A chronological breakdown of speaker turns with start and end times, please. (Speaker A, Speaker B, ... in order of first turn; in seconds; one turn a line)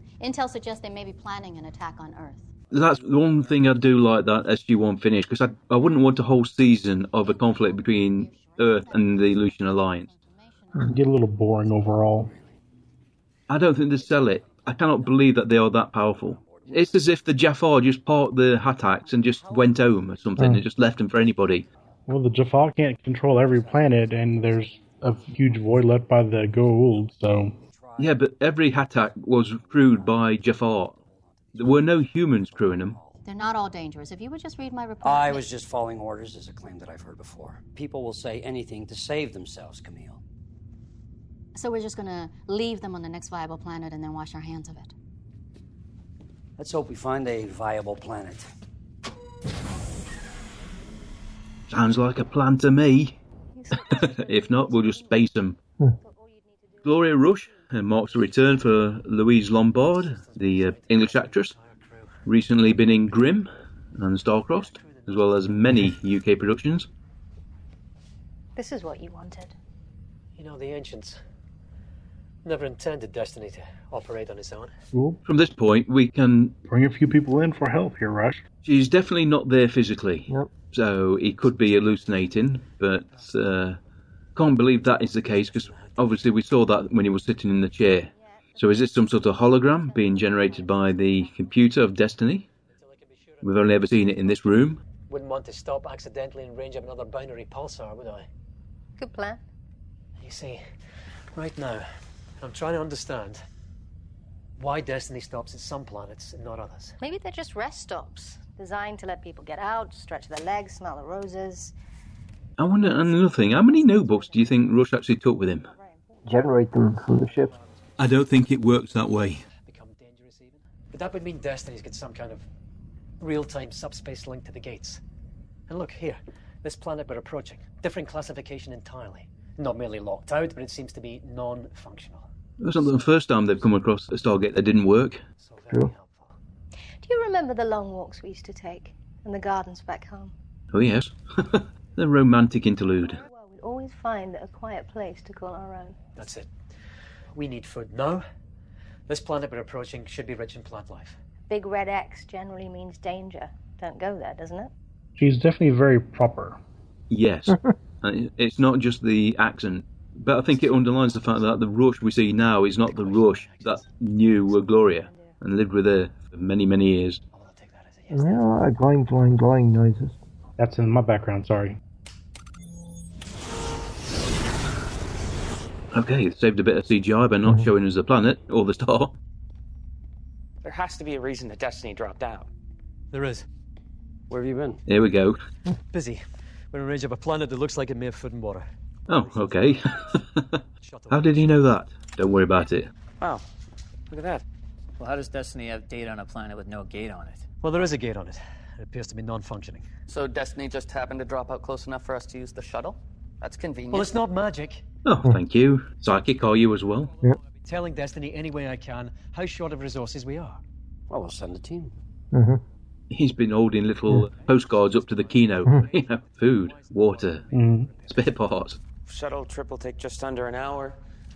Speaker A: 0.2-2.5
Speaker B: 2.7-10.1
Speaker C: 2.8-3.8
Speaker A: 7.1-10.9
Speaker D: 10.8-12.3
Speaker C: 11.6-12.6
Speaker B: 13.5-21.7
Speaker C: 13.9-17.2
Speaker C: 18.9-19.9
Speaker E: 20.4-20.6
Speaker D: 22.1-27.6
Speaker F: 23.3-24.6
Speaker C: 23.5-25.8
Speaker C: 26.9-33.3
Speaker B: 28.0-31.0
Speaker B: 31.5-33.0
Speaker A: 33.2-35.5
Speaker C: 35.0-40.2
Speaker A: 41.5-44.9
Speaker C: 46.6-48.5
Speaker B: 51.7-53.2
Speaker G: 53.5-55.2
Speaker B: 53.7-55.6
Speaker G: 56.0-57.6
Speaker B: 56.8-61.5
Speaker F: 59.8-62.2
Speaker B: 62.2-66.9
Speaker F: 64.5-65.7
Speaker G: 68.6-69.5
Speaker F: 70.4-71.2
Speaker F: 72.5-74.8
Speaker D: 74.9-75.2
Speaker B: 75.2-76.6
Speaker D: 76.7-78.4
Speaker B: 78.6-83.8
Speaker B: 84.3-92.5
Speaker F: 85.2-86.2
Speaker G: 89.8-90.7
Speaker F: 92.7-98.3
Speaker B: 93.4-94.8
Speaker G: 99.0-99.4
Speaker F: 100.2-100.6
Speaker F: 101.3-101.9
Speaker F: 102.4-103.4
Speaker F: 104.6-107.0
Speaker G: 107.0-111.7
Speaker B: 112.6-115.7
Speaker G: 113.9-114.5
Speaker G: 115.7-116.2
Speaker E: 116.2-117.5
Speaker F: 117.2-117.9
Speaker B: 118.0-119.4
Speaker F: 119.6-122.5
Speaker F: 123.2-125.0
Speaker F: 125.7-132.3
Speaker B: 132.6-135.2
Speaker F: 132.8-133.0
Speaker F: 135.4-136.3
Speaker G: 137.0-140.3
Speaker B: 140.7-143.2
Speaker G: 143.0-146.0
Speaker F: 146.2-146.5
Speaker F: 147.3-148.2
Speaker F: 149.1-151.2
Speaker G: 151.5-154.7
Speaker D: 155.2-156.6
Speaker B: 157.1-167.2
Speaker F: 160.5-163.9
Speaker F: 167.3-168.5
Speaker E: 168.1-170.2
Speaker D: 170.6-171.8
Speaker B: 175.9-179.1
Speaker E: 177.5-177.7
Speaker H: 180.6-182.5
Speaker F: 183.1-183.5
Speaker C: 184.3-184.8
Speaker B: 184.9-185.4
Speaker F: 185.9-190.0
Speaker B: 189.1-192.9
Speaker F: 190.8-191.6
Speaker H: 194.1-194.4
Speaker I: 195.0-197.5
Speaker F: 197.6-199.8
Speaker J: 200.1-204.1
Speaker F: 203.9-204.8
Speaker B: 205.0-207.1
Speaker F: 206.9-210.6
Speaker C: 211.1-211.9
Speaker E: 212.3-212.6
Speaker B: 213.1-217.5
Speaker F: 214.2-218.3
Speaker D: 217.5-217.9
Speaker B: 218.1-218.8
Speaker H: 219.1-221.0